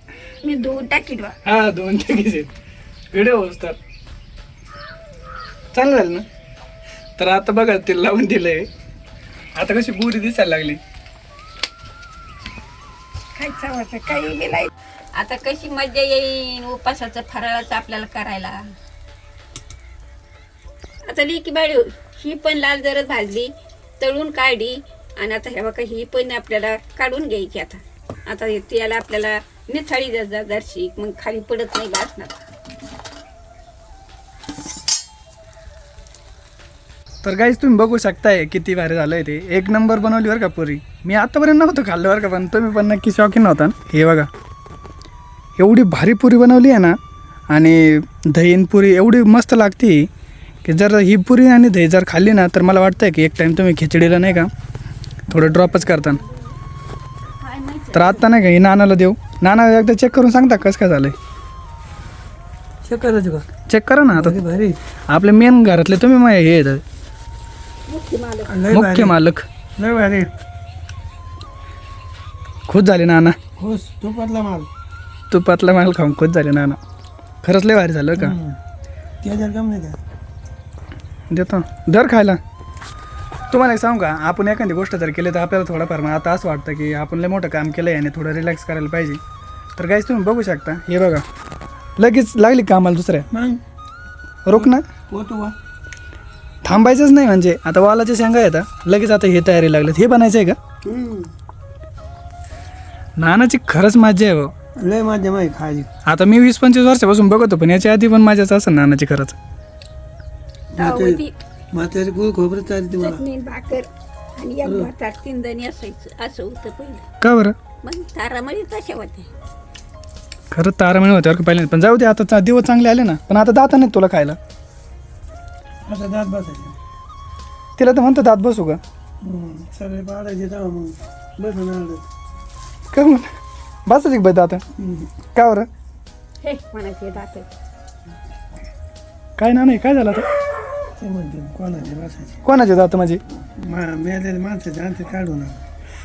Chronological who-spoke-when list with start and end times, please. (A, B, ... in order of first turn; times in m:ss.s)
0:00.4-0:01.4 A
0:01.4-0:02.5 B
0:03.1-0:03.8 B
0:05.7-0:06.2 B
0:07.2-0:08.7 B
0:09.6-0:10.8 B
0:13.4-0:18.6 A
0:21.1-0:32.5 A
0:37.2-0:44.3 B
0:45.6-0:47.0 B
0:47.5-0:50.1 B
0:50.6-0:54.5 B
0:55.3-0:56.2 B
0:57.4-0:58.2 A
0:57.9-1:01.2 B
1:02.8-1:03.5 C
1:03.7-1:04.4 B
1:04.1-1:04.8 C
1:05.1-1:06.8 B
1:07.9-1:08.5 A
1:08.5-1:09.2 C
1:08.7-1:09.5 B
1:09.8-1:10.3 C
1:12.7-1:13.4 B
1:13.6-1:14.7 C
1:15.3-1:16.8 B
1:17.4-1:18.4 B
1:18.2-1:18.6 C
1:19.2-1:20.0 C
1:21.3-1:22.4 B
1:23.5-1:29.2 B
1:29.8-1:31.2 B
1:32.0-1:33.3 B
1:33.3-1:33.6 C
1:34.4-1:34.8 B
1:34.5-1:35.6 C
1:36.6-1:40.6 B
1:40.8-1:41.3 C
1:43.2-1:44.5 B
1:44.8-1:45.9 C
1:46.1-1:49.4 B
1:50.7-1:53.2 C
1:50.8-1:51.4 A
1:53.0-1:57.0 A
1:54.6-1:54.9 C
1:57.2-1:57.6 B
1:57.8-1:59.3 A
2:00.5-2:04.4 B
2:05.9-2:06.8 C
2:07.8-2:08.8 B
2:09.2-2:12.1 C
2:12.9-2:13.3 B
2:13.9-2:14.6 B
2:14.8-2:15.1 C
2:15.3-2:15.7 B
2:16.4-2:17.5 A
2:19.4-2:20.2 B
2:20.9-2:22.4 C
2:22.4-2:23.2 B
2:23.6-2:25.6 C